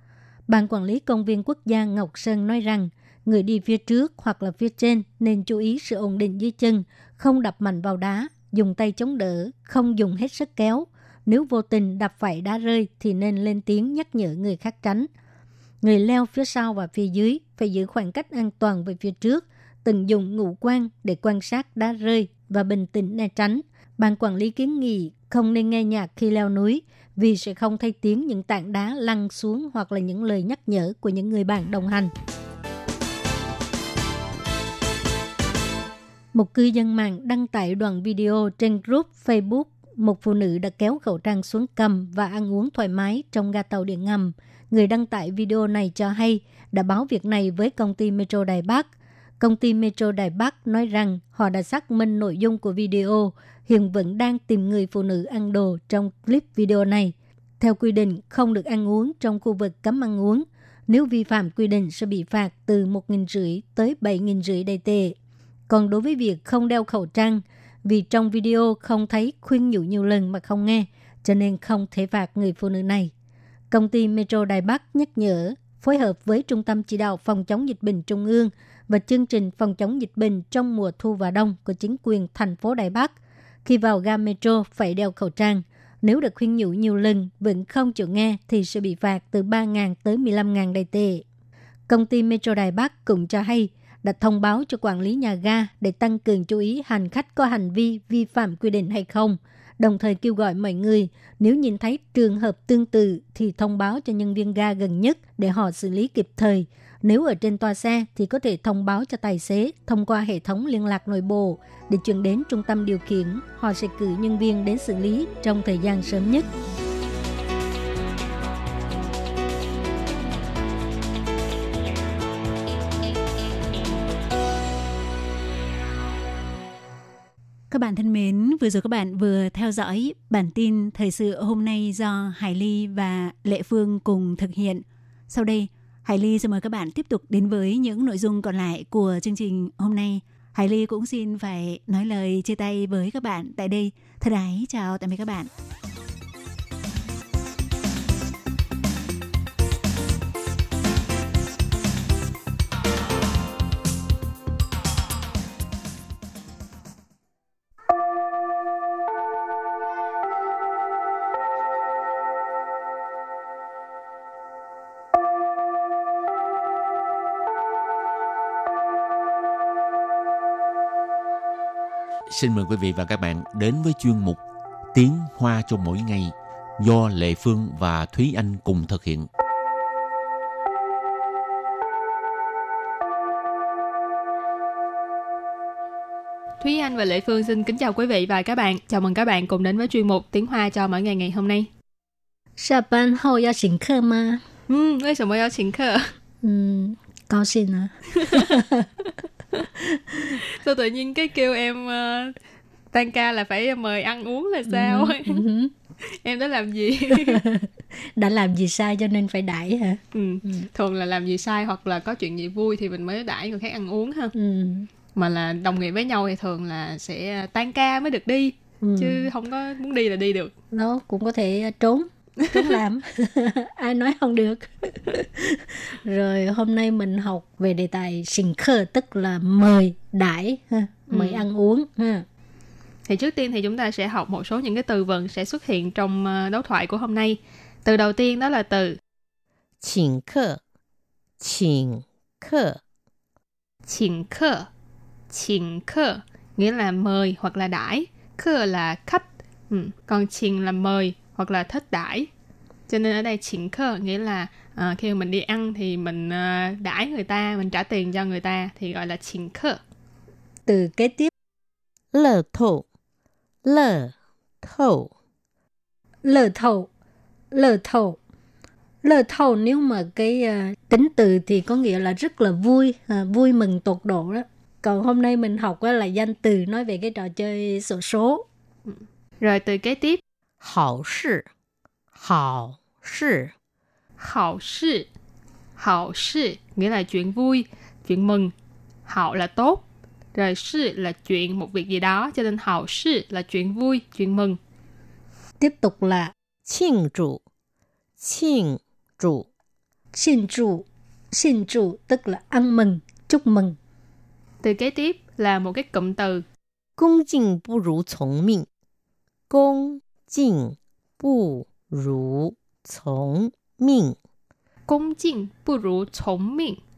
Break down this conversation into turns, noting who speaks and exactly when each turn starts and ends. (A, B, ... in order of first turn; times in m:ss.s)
0:00.5-0:15.1 A
0:15.8-0:32.1 A
0:36.3-1:05.2 A
1:05.7-1:13.1 A
1:13.7-1:31.2 A
1:31.9-1:56.5 A
2:07.7-2:25.5 B
2:52.3-2:54.4 C
2:54.9-2:59.3 C
3:06.6-3:11.7 D
3:12.6-3:14.4 E
3:14.7-3:16.0 D
3:16.4-3:18.9 E
3:20.6-3:22.4 D
3:22.9-3:25.4 D
3:24.7-3:25.7 E
3:26.2-3:27.4 D
3:27.1-3:30.7 E
3:30.1-3:34.3 D
3:34.3-3:34.9 E
3:35.1-3:40.5 D
3:38.8-3:39.3 E
3:40.7-3:52.2 E
3:51.1-3:51.4 D
3:53.0-3:59.0 D
3:59.8-4:00.6 F
4:01.4-4:02.8 F
4:03.9-4:04.7 D
4:05.3-4:12.3 D
4:12.9-4:19.8 D
4:20.7-4:21.3 E
4:22.1-4:22.8 F
4:23.6-4:25.1 F
4:26.2-4:26.9 E
4:27.5-4:28.2 E
4:29.0-4:38.4 E
4:38.9-4:40.2 D
4:40.6-4:41.5 F
4:42.1-4:43.5 F
4:44.2-4:45.1 D
4:45.8-4:48.5 D
4:49.0-4:49.8 D
4:50.3-4:54.6 D
4:55.6-4:56.3 E
4:56.6-4:57.4 F
4:58.2-4:59.5 F
5:00.1-5:03.8 E
5:04.6-5:06.4 D
5:07.0-5:08.6 F
5:09.5-5:14.2 F
5:14.9-5:16.8 D